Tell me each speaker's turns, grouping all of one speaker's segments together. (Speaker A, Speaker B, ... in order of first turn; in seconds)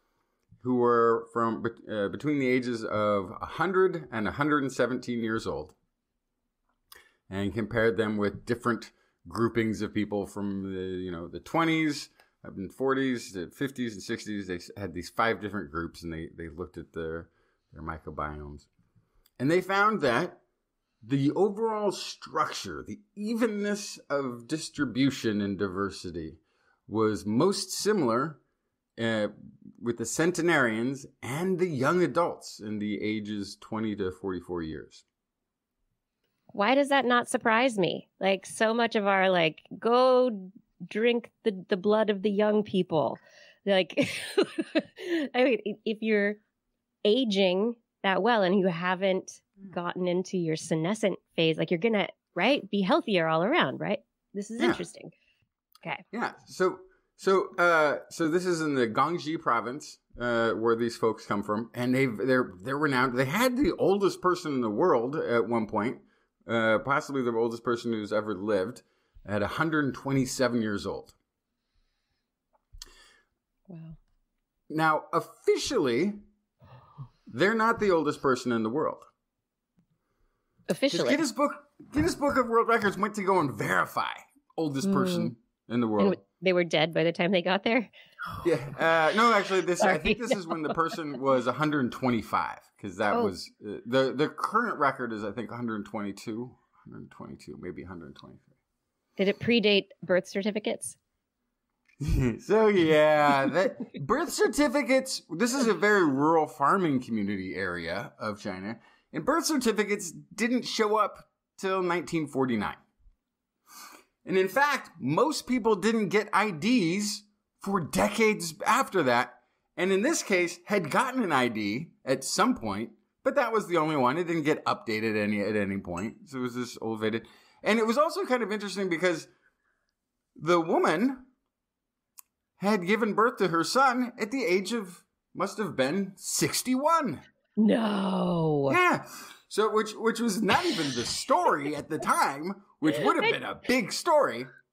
Speaker A: 0.6-5.8, 7.3-18.7, 19.4-20.4, 21.0-28.4, 29.0-35.0, 54.6-54.8, 56.1-71.2, 74.7-76.2, 77.3-79.1, 80.9-86.2, 88.4-98.5, 102.0-112.8, 114.2-129.3, 130.4-131.3, 132.6-137.2, 138.7-144.5
Speaker B: 36.5-46.4, 47.0-55.1, 73.7-74.0, 80.7-81.2, 84.8-85.3, 86.0-87.9, 89.8-90.5, 99.2-101.0, 137.6-138.8